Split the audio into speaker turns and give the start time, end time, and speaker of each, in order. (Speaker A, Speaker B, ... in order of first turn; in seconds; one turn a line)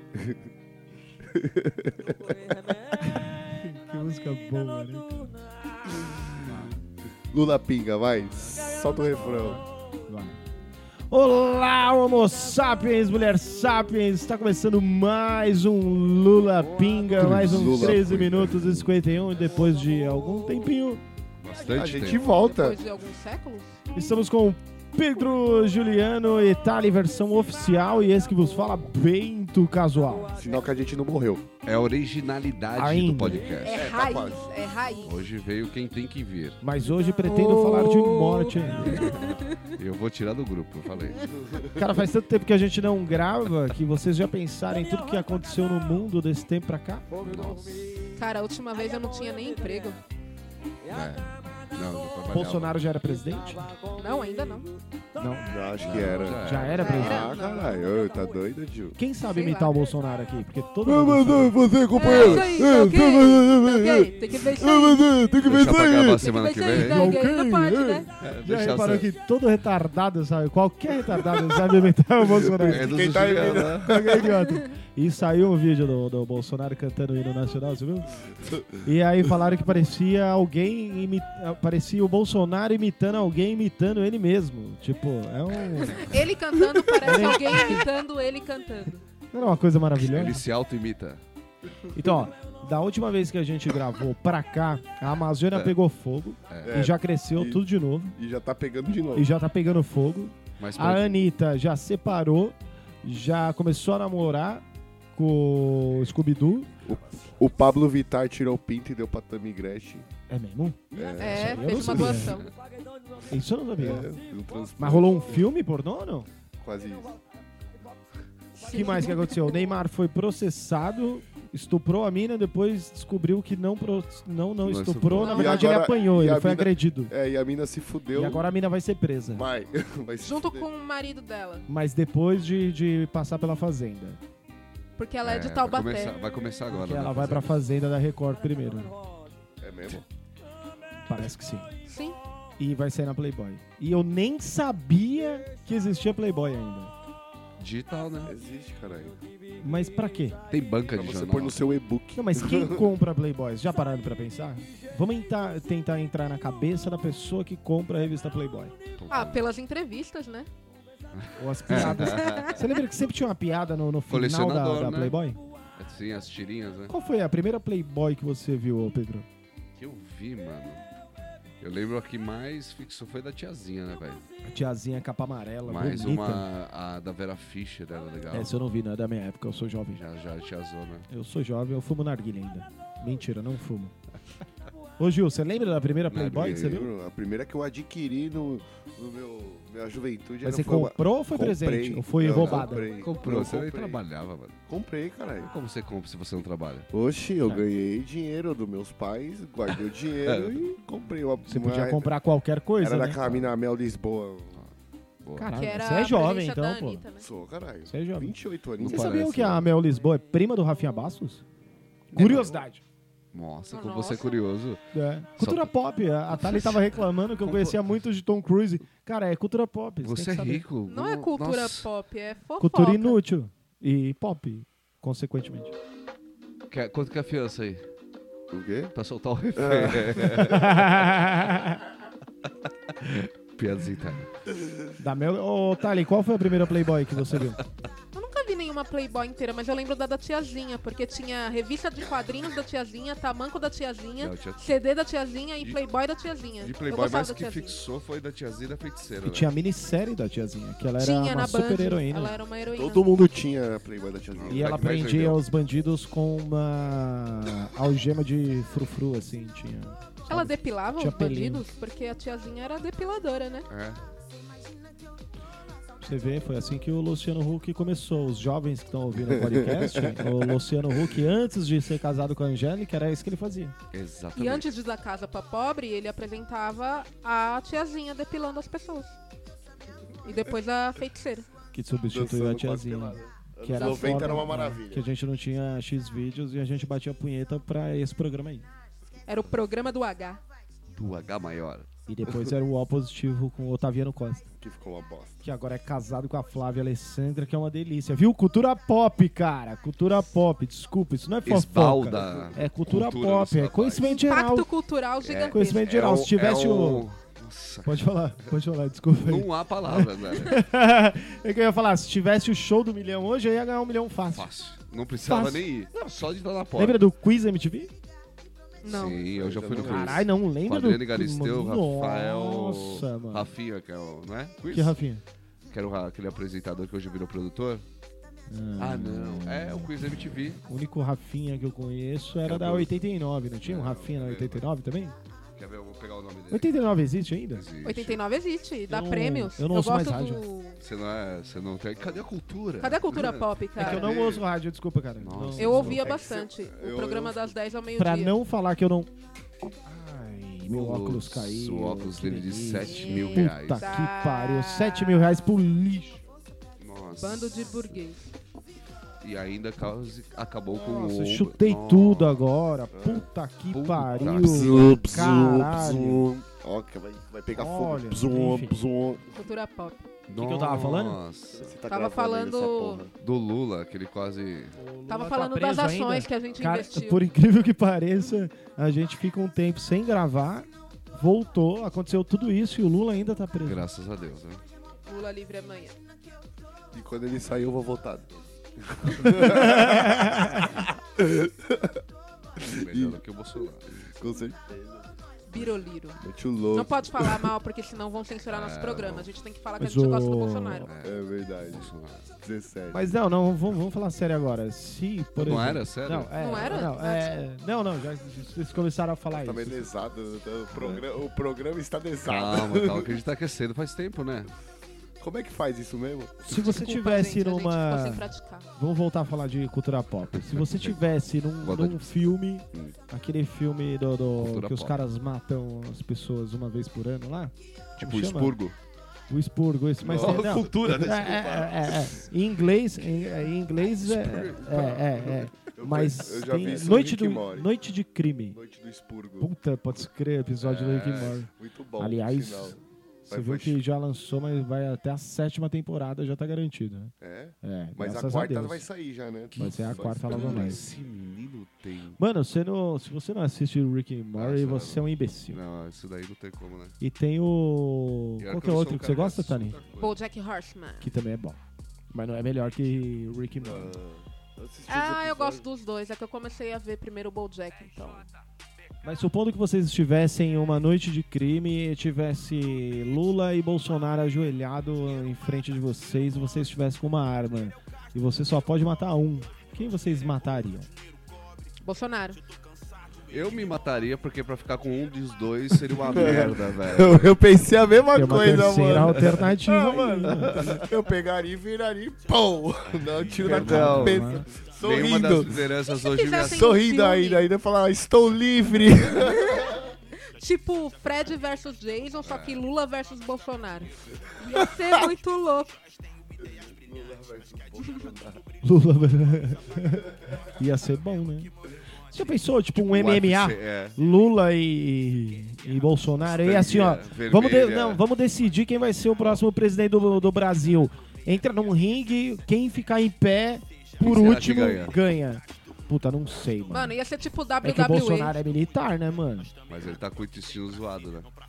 Speaker A: 1.3-2.4
Speaker B: 3.0-5.4
Speaker A: 5.9-6.3
Speaker B: 6.4-6.7
Speaker A: 7.3-9.6
Speaker B: 9.2-10.4
Speaker B: 11.1-21.0
Speaker A: 17.2-18.9
Speaker C: 17.2-17.8
Speaker C: 21.4-22.2
Speaker A: 21.7-22.8
Speaker D: 22.2-23.8
Speaker B: 23.9-30.4
Speaker A: 30.3-31.5
Speaker C: 31.6-33.8
Speaker B: 32.7-33.5
Speaker D: 33.5-35.2
Speaker A: 33.7-34.5
Speaker C: 35.0-36.6
Speaker B: 36.6-39.1
Speaker D: 38.9-39.7
Speaker C: 39.0-41.3
Speaker B: 41.7-47.2
Speaker C: 47.2-48.0
Speaker D: 48.1-50.0
Speaker C: 50.9-52.8
Speaker B: 52.3-53.7
Speaker D: 53.9-54.7
Speaker B: 55.2-55.5
Speaker A: 55.5-59.0
Speaker C: 55.8-57.0
Speaker B: 56.3-57.3
Speaker D: 56.8-57.9
Speaker B: 59.0-61.6
Speaker D: 59.3-59.7
Speaker A: 60.8-66.3
Speaker D: 62.0-65.0
Speaker C: 62.0-62.5
Speaker C: 65.4-67.1
Speaker D: 66.2-68.1
Speaker B: 66.8-67.8
Speaker A: 67.8-68.0
Speaker C: 68.2-69.1
Speaker B: 68.3-73.0
Speaker A: 72.3-74.3
Speaker C: 72.6-74.2
Speaker B: 73.8-78.2
Speaker B: 78.7-87.8
Speaker D: 85.6-89.0
Speaker B: 89.3-90.4
Speaker C: 90.0-91.2
Speaker B: 91.9-98.2
Speaker C: 96.5-96.8
Speaker A: 96.6-97.6
Speaker A: 98.1-99.3
Speaker B: 99.1-104.6
Speaker C: 100.6-101.2
Speaker B: 105.1-106.8
Speaker A: 106.8-110.1
Speaker B: 110.3-112.4
Speaker C: 110.9-112.5
Speaker A: 110.9-111.5
Speaker D: 111.2-112.5
Speaker B: 113.3-114.1
Speaker A: 113.8-115.5
Speaker B: 114.8-116.3
Speaker A: 116.6-117.1
Speaker D: 118.6-119.6
Speaker B: 118.6-127.1
Speaker C: 124.6-125.5
Speaker D: 125.2-125.5
Speaker A: 125.2-128.5
Speaker B: 128.1-129.4
Speaker A: 129.3-130.7
Speaker D: 130.2-131.7
Speaker B: 131.7-134.2
Speaker D: 135.0-136.2
Speaker C: 135.2-137.6
Speaker B: 136.7-138.9
Speaker A: 139.6-140.0
Speaker B: 141.1-141.7
Speaker D: 141.8-142.2
Speaker B: 142.6-146.9
Speaker C: 147.6-148.3
Speaker A: 148.2-149.2
Speaker B: 149.6-150.4
Speaker C: 150.5-151.6
Speaker A: 150.9-152.9
Speaker B: 152.2-158.7
Speaker C: 158.9-159.5
Speaker D: 159.1-160.5
Speaker C: 161.1-162.5
Speaker B: 161.4-165.4
Speaker D: 161.9-162.6
Speaker C: 164.1-165.2
Speaker C: 165.8-166.9
Speaker B: 166.9-169.3
Speaker C: 169.8-170.8
Speaker C: 171.6-174.2
Speaker B: 174.4-176.5
Speaker C: 175.6-178.6
Speaker B: 178.3-180.0
Speaker C: 179.9-181.1
Speaker B: 181.1-183.9
Speaker B: 185.0-186.9
Speaker C: 186.1-186.9
Speaker A: 186.4-194.0
Speaker B: 190.4-192.8
Speaker C: 192.3-194.6
Speaker A: 194.7-195.5
Speaker C: 195.4-196.9
Speaker A: 196.9-202.1
Speaker C: 200.2-200.6
Speaker B: 201.4-203.5
Speaker A: 202.8-204.6
Speaker C: 205.2-205.5
Speaker B: 205.3-207.0
Speaker D: 205.5-207.2
Speaker A: 207.2-209.2
Speaker B: 207.9-211.4
Speaker C: 208.8-209.7
Speaker C: 212.1-212.6
Speaker B: 212.1-212.8
Speaker C: 213.3-214.8
Speaker D: 213.7-214.4
Speaker B: 214.9-220.7
Speaker C: 215.4-215.7
Speaker C: 216.3-216.9
Speaker C: 217.4-217.8
Speaker C: 220.0-221.9
Speaker D: 220.8-223.2
Speaker B: 222.6-225.7
Speaker C: 226.7-227.8
Speaker A: 228.5-228.9
Speaker C: 228.9-231.1
Speaker A: 229.6-230.7
Speaker B: 230.6-231.8
Speaker C: 232.9-234.3
Speaker B: 235.0-237.6
Speaker D: 238.1-247.8
Speaker C: 244.2-244.6
Speaker C: 246.6-249.5
Speaker B: 249.2-252.3
Speaker D: 251.0-253.1
Speaker A: 252.7-255.1
Speaker C: 254.3-255.4
Speaker B: 254.5-261.6
Speaker D: 260.3-263.7
Speaker C: 263.7-264.0
Speaker B: 266.0-273.7
Speaker A: 269.4-270.2
Speaker C: 273.9-274.7
Speaker D: 274.3-279.1
Speaker D: 280.2-281.5
Speaker B: 281.7-288.7
Speaker A: 282.1-285.0
Speaker D: 283.7-284.5
Speaker D: 289.3-290.4
Speaker C: 290.9-291.9
Speaker B: 292.1-294.5
Speaker A: 294.6-295.4
Speaker B: 295.4-304.7
Speaker C: 301.4-304.2
Speaker D: 304.0-305.9
Speaker C: 305.2-308.5
Speaker B: 305.5-307.1
Speaker B: 307.8-314.5
Speaker C: 309.2-310.6
Speaker C: 314.3-317.0
Speaker B: 315.2-316.2
Speaker B: 316.7-317.9
Speaker D: 318.8-319.2
Speaker C: 318.8-325.0
Speaker A: 319.3-320.3
Speaker B: 319.8-323.5
Speaker B: 324.7-325.2
Speaker C: 325.7-327.8
Speaker B: 328.5-329.9
Speaker C: 328.8-330.6
Speaker B: 330.6-335.1
Speaker C: 332.4-333.0
Speaker C: 333.6-334.7
Speaker C: 335.6-336.7
Speaker B: 336.5-337.6
Speaker C: 337.5-338.2
Speaker D: 337.8-340.8
Speaker B: 338.9-340.4
Speaker C: 340.8-343.5
Speaker D: 342.8-344.1
Speaker B: 343.8-346.0
Speaker A: 343.9-344.4
Speaker C: 345.2-346.0
Speaker D: 345.6-348.4
Speaker A: 346.0-347.5
Speaker B: 347.9-349.1
Speaker B: 349.9-356.2
Speaker C: 350.7-353.9
Speaker D: 352.8-355.6
Speaker C: 356.8-357.9
Speaker D: 357.2-358.3
Speaker C: 359.2-362.4
Speaker B: 360.7-366.3
Speaker A: 362.9-363.3
Speaker C: 363.7-365.5
Speaker A: 364.2-369.2
Speaker B: 367.5-368.7
Speaker D: 369.3-370.1
Speaker C: 370.3-371.8
Speaker B: 370.3-371.2
Speaker A: 371.5-373.1
Speaker D: 371.9-373.0
Speaker C: 373.1-374.8
Speaker B: 374.8-383.9
Speaker D: 375.1-377.2
Speaker C: 383.6-384.6
Speaker D: 385.1-385.9
Speaker A: 386.9-391.9
Speaker B: 389.4-390.4
Speaker A: 392.6-393.2
Speaker C: 392.7-394.0
Speaker A: 394.1-395.1
Speaker D: 395.5-396.2
Speaker A: 396.2-397.5
Speaker D: 396.7-400.9
Speaker C: 398.5-399.3
Speaker B: 399.8-400.9
Speaker C: 400.8-402.3
Speaker A: 401.0-403.1
Speaker B: 402.9-409.9
Speaker C: 405.4-406.3
Speaker D: 406.3-407.4
Speaker A: 409.3-413.1
Speaker B: 410.7-411.0
Speaker C: 412.2-414.5
Speaker A: 415.2-416.6
Speaker B: 416.4-428.6
Speaker D: 416.5-418.7
Speaker C: 420.3-421.0
Speaker C: 421.6-422.9
Speaker C: 424.4-425.0
Speaker C: 428.0-428.8
Speaker B: 429.3-438.6
Speaker C: 430.0-432.2
Speaker A: 430.1-430.9
Speaker C: 433.8-435.5
Speaker A: 435.5-437.7
Speaker A: 438.5-439.5
Speaker B: 439.4-448.8
Speaker C: 440.6-441.4
Speaker A: 441.5-442.8
Speaker A: 443.3-443.8
Speaker A: 447.2-450.8
Speaker C: 449.5-452.2
Speaker B: 449.6-450.8
Speaker D: 450.3-450.7
Speaker B: 452.2-455.6
Speaker C: 454.3-456.9
Speaker B: 457.0-459.8
Speaker C: 458.4-460.2
Speaker D: 459.9-461.1
Speaker B: 461.0-461.6
Speaker B: 462.1-463.9
Speaker A: 463.6-465.6
Speaker D: 464.9-468.3
Speaker B: 469.0-480.9
Speaker D: 481.8-482.4
Speaker C: 483.3-487.4
Speaker A: 486.0-495.6
Speaker B: 488.1-490.8
Speaker C: 493.2-496.7
Speaker B: 493.4-494.5
Speaker D: 495.9-497.5
Speaker A: 496.5-499.8
Speaker D: 499.2-499.7
Speaker D: 500.3-505.7
Speaker C: 502.2-502.6
Speaker A: 506.5-508.4
Speaker B: 508.6-511.5
Speaker B: 512.1-526.9
Speaker C: 512.7-514.0
Speaker C: 516.2-518.0
Speaker C: 524.0-524.9
Speaker D: 526.7-528.4
Speaker B: 527.6-529.5
Speaker C: 529.7-531.3